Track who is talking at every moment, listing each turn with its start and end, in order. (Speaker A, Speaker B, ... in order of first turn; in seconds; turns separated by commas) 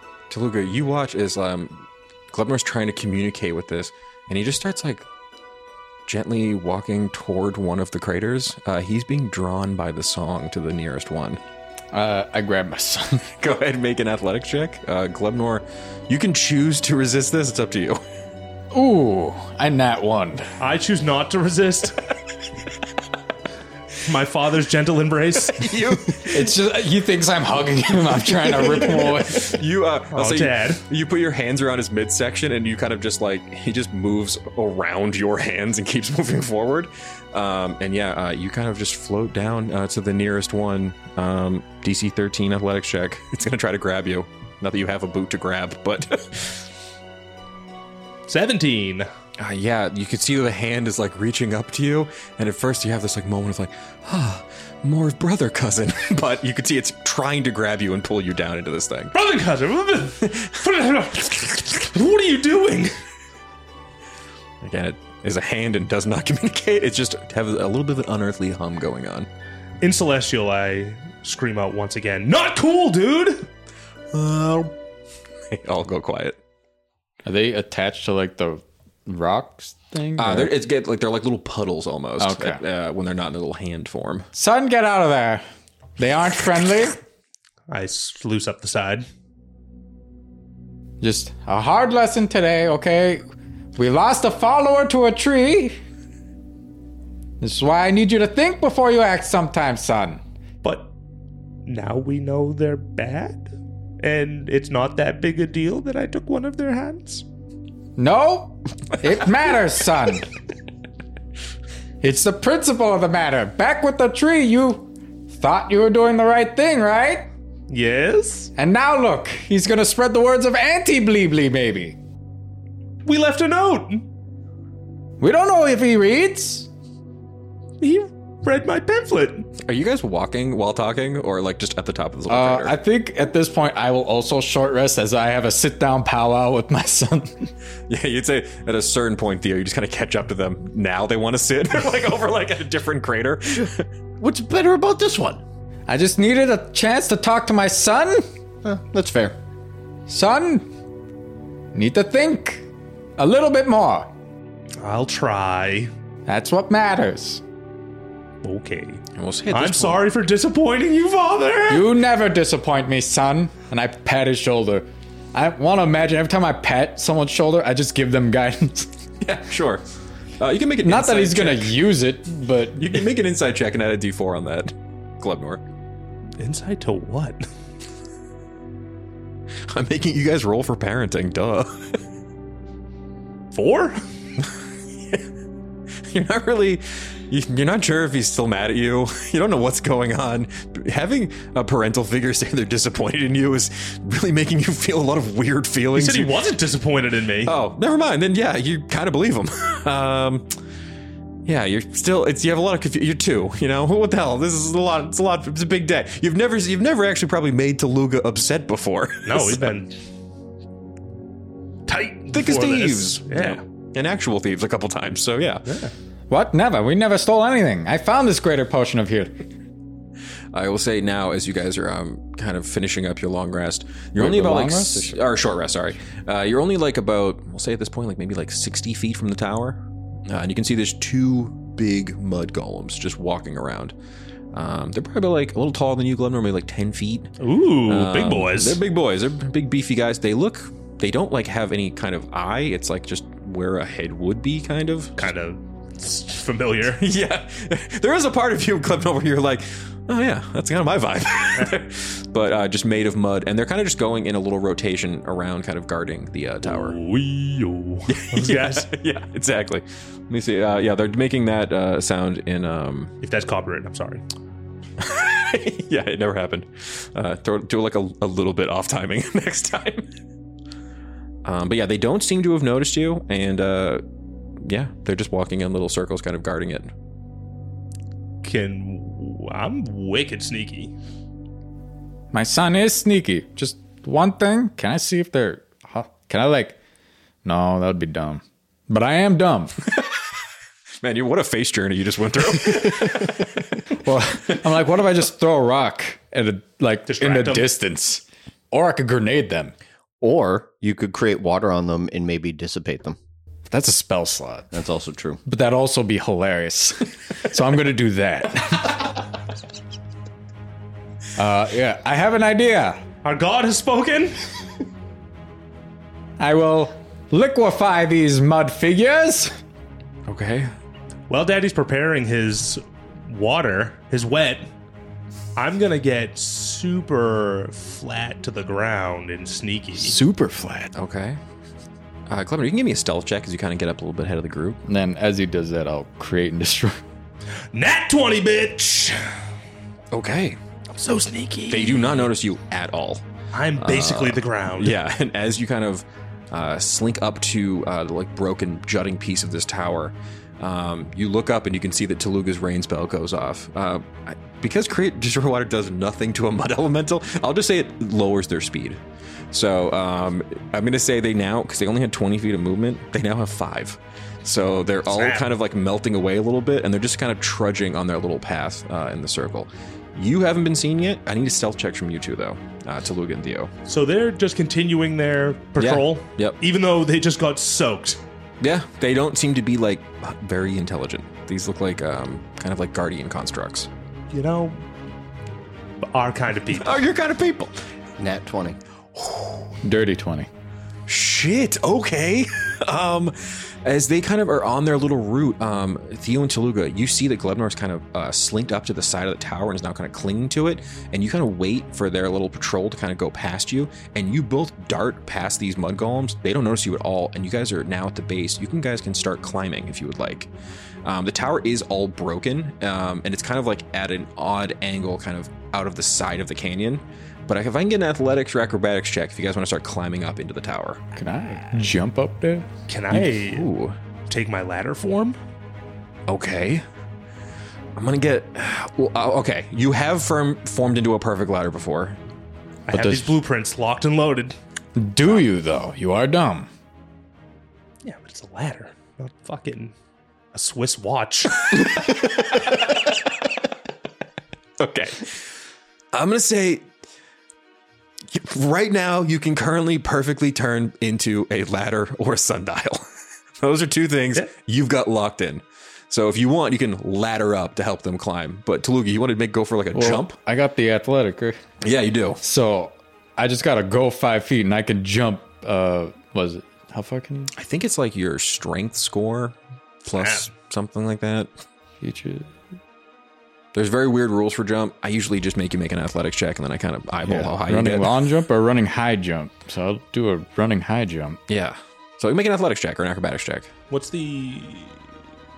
Speaker A: 0.3-5.0, Speaker A: 6.1-11.4, Speaker B: 11.9-13.2, Speaker A: 13.4-18.0, Speaker B: 18.7-20.5, Speaker C: 20.6-22.0, Speaker C: 24.0-25.8, Speaker A: 25.4-26.5, Speaker B: 26.2-29.6, Speaker A: 28.4-46.7, Speaker C: 30.1-30.8, Speaker C: 48.3-49.1, Speaker A: 49.4-59.1, Speaker C: 59.1-62.9, Speaker A: 64.6-69.3, Speaker C: 69.8-73.5, Speaker A: 74.1-74.7, Speaker A: 75.5-76.4, Speaker B: 77.2-80.5, Speaker A: 80.2-84.3, Speaker B: 82.2-82.6, Speaker B: 84.3-85.4, Speaker B: 86.0-87.0, Speaker C: 87.7-89.0, Speaker B: 91.0-93.2, Speaker B: 93.8-95.8, Speaker B: 97.4-100.2, Speaker C: 100.6-100.9, Speaker C: 101.7-103.5, Speaker C: 104.0-107.2, Speaker B: 108.0-110.3, Speaker B: 112.0-117.3, Speaker C: 117.7-118.5, Speaker B: 118.5-122.0, Speaker C: 123.0-124.0, Speaker B: 125.2-126.7, Speaker C: 127.8-129.5, Speaker A: 129.6-132.8, Speaker B: 132.3-137.5, Speaker A: 137.9-143.9, Speaker D: 144.2-145.4, Speaker B: 145.9-148.2, Speaker D: 148.6-149.3, Speaker B: 150.1-150.7, Speaker B: 151.7-152.6, Speaker B: 153.2-154.1, Speaker C: 154.8-155.9, Speaker B: 156.3-157.4, Speaker C: 158.4-161.9, Speaker A: 159.2-160.1, Speaker B: 161.7-168.9, Speaker A: 169.2-169.8, Speaker A: 170.4-171.9, Speaker B: 170.8-173.0, Speaker A: 172.8-175.6, Speaker C: 176.4-177.4, Speaker A: 179.7-182.0, Speaker C: 183.5-184.0, Speaker A: 186.0-196.4, Speaker C: 195.9-197.6, Speaker A: 197.4-200.5, Speaker A: 201.4-209.8, Speaker C: 209.2-209.9, Speaker C: 211.9-213.6, Speaker A: 212.3-215.6, Speaker C: 215.7-215.9, Speaker B: 216.3-219.3, Speaker A: 220.5-233.9, Speaker B: 224.2-225.2, Speaker A: 234.5-237.3, Speaker C: 237.4-238.8, Speaker A: 237.9-245.2, Speaker C: 245.2-247.0, Speaker A: 246.9-257.0, Speaker C: 256.6-258.9, Speaker A: 258.1-263.1, Speaker C: 263.2-264.2, Speaker A: 265.0-270.1, Speaker A: 271.4-274.0, Speaker A: 274.6-276.9, Speaker C: 278.4-280.9, Speaker B: 282.3-286.8, Speaker B: 287.4-289.7, Speaker A: 291.0-293.6, Speaker B: 293.1-293.3, Speaker B: 293.9-299.7, Speaker C: 297.1-297.7, Speaker D: 300.2-303.2, Speaker B: 303.7-304.7, Speaker D: 304.7-305.4, Speaker B: 305.4-309.1, Speaker B: 311.4-313.0, Speaker C: 313.2-314.4, Speaker B: 316.4-319.6, Speaker A: 320.3-320.7, Speaker C: 321.3-324.7, Speaker C: 325.6-330.2, Speaker B: 330.0-330.9, Speaker A: 330.9-331.4, Speaker A: 332.3-334.8, Speaker B: 334.9-337.0, Speaker C: 337.7-339.4, Speaker A: 340.1-340.6, Speaker C: 340.9-342.3, Speaker A: 341.7-343.2, Speaker C: 343.5-344.9, Speaker A: 343.8-373.7, Speaker C: 365.1-365.5, Speaker C: 373.9-378.2, Speaker A: 375.8-376.6, Speaker A: 378.6-383.9, Speaker C: 384.3-384.8, Speaker C: 386.0-387.0, Speaker A: 386.7-387.8, Speaker D: 388.2-388.8, Speaker A: 389.1-389.6, Speaker B: 389.8-390.5, Speaker A: 391.1-410.5, Speaker A: 411.0-421.0, Speaker B: 421.1-422.7, Speaker C: 422.9-423.7, Speaker A: 423.1-423.9, Speaker C: 424.3-425.4, Speaker A: 426.3-426.8, Speaker A: 427.9-432.2, Speaker C: 432.9-434.6, Speaker B: 432.9-433.4, Speaker B: 434.9-436.7, Speaker C: 438.0-439.9, Speaker C: 440.5-441.7, Speaker A: 441.7-443.1, Speaker A: 444.8-445.5, Speaker A: 446.1-446.9, Speaker A: 448.3-453.0, Speaker A: 453.6-460.4, Speaker B: 459.9-461.6, Speaker A: 461.8-462.4, Speaker B: 462.4-467.5, Speaker A: 467.5-471.5, Speaker C: 470.1-470.5, Speaker B: 472.0-472.5, Speaker A: 473.7-478.2, Speaker B: 477.2-481.4, Speaker A: 481.5-483.7, Speaker C: 483.9-485.0